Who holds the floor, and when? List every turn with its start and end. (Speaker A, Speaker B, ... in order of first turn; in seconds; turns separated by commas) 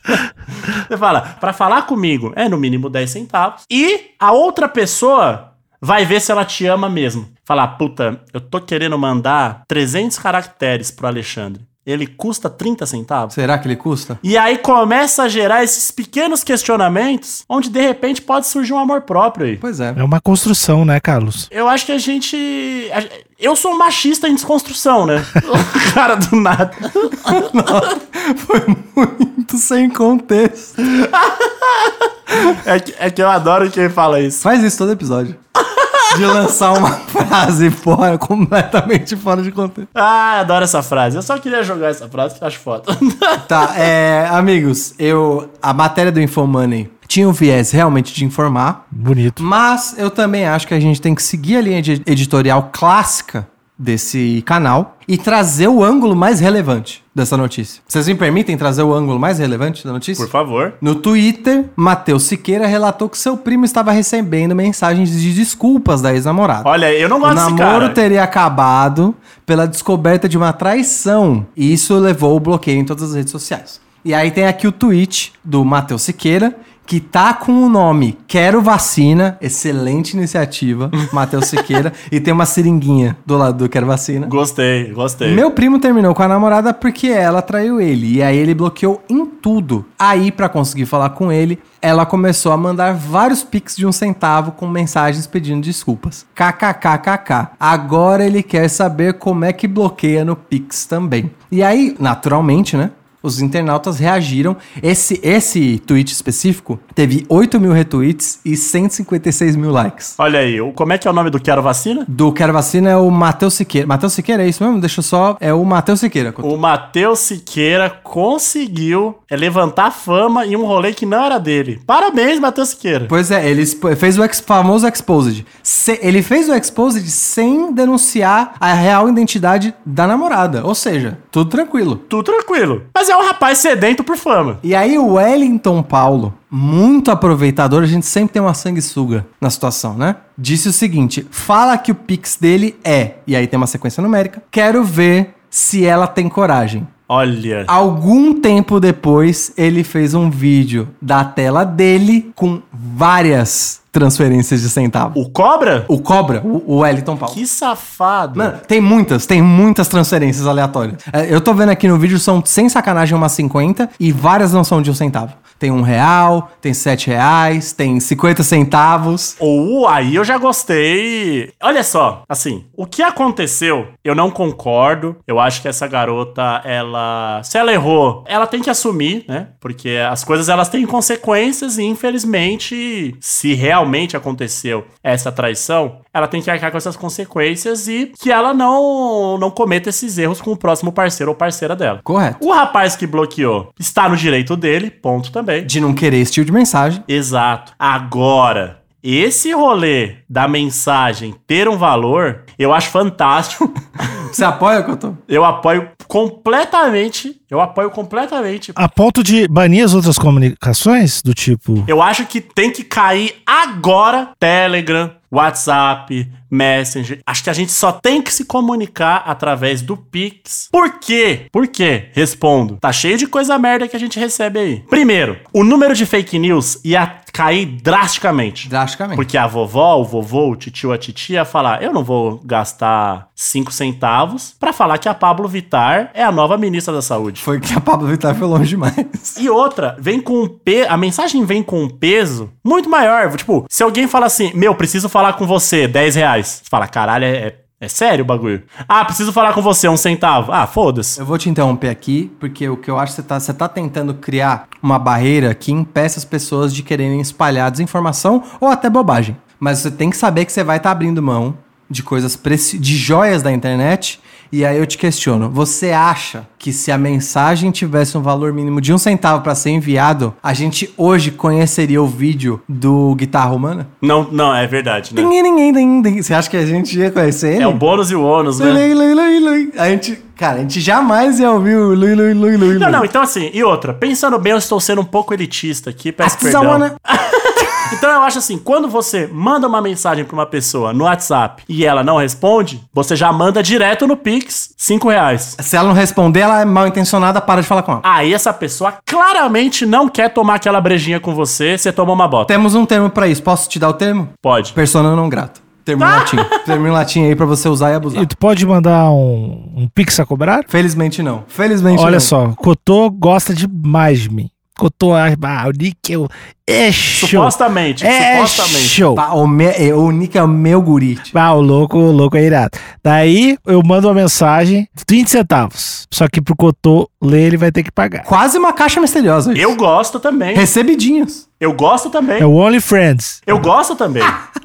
Speaker A: 0.7-13.3, Speaker B: 13.3-14.2, Speaker A: 14.2-19.6, Speaker B: 19.6-20.0, Speaker C: 20.0-21.5, Speaker A: 21.5-27.5, Speaker B: 27.2-31.1, Speaker A: 31.1-34.4, Speaker B: 34.4-35.4, Speaker A: 35.6-36.1, Speaker B: 36.1-39.9, Speaker A: 40.0-43.7, Speaker B: 43.5-48.9, Speaker C: 48.9-49.5, Speaker B: 49.4-60.3, Speaker A: 60.2-60.8, Speaker B: 60.8-66.7, Speaker A: 66.6-68.0, Speaker B: 67.2-84.3, Speaker A: 84.3-85.4, Speaker B: 85.2-110.2, Speaker A: 110.2-112.1, Speaker B: 112.1-116.5, Speaker A: 116.4-123.1, Speaker B: 123.1-132.0, Speaker A: 132.1-134.6, Speaker B: 134.6-146.9, Speaker A: 147.1-147.7, Speaker B: 147.7-155.2, Speaker A: 155.2-155.9, Speaker B: 155.9-157.4, Speaker A: 157.3-158.6, Speaker B: 158.3-169.4, Speaker A: 169.4-195.7, Speaker B: 192.1-192.4, Speaker B: 195.6-197.1, Speaker A: 197.1-203.7, Speaker B: 204.2-205.2, Speaker A: 205.3-208.8, Speaker C: 208.8-211.9, Speaker A: 211.9-237.4, Speaker B: 228.7-229.2, Speaker B: 237.4-239.4, Speaker A: 239.4-251.2, Speaker B: 251.2-273.9, Speaker A: 274.0-275.3, Speaker B: 275.2-277.8, Speaker A: 277.6-278.9, Speaker B: 278.6-283.1, Speaker A: 282.6-295.6, Speaker B: 286.2-287.0, Speaker B: 295.6-298.1, Speaker A: 298.0-302.5, Speaker B: 302.5-308.3, Speaker A: 304.4-304.8, Speaker A: 306.0-306.8, Speaker C: 308.1-310.7, Speaker B: 310.7-312.3, Speaker C: 311.9-319.2, Speaker A: 317.1-319.0, Speaker B: 319.1-321.4, Speaker C: 321.3-328.3, Speaker B: 328.2-329.7, Speaker A: 329.6-330.7, Speaker B: 330.6-331.4, Speaker A: 331.6-332.5, Speaker C: 332.4-333.4, Speaker A: 333.5-334.4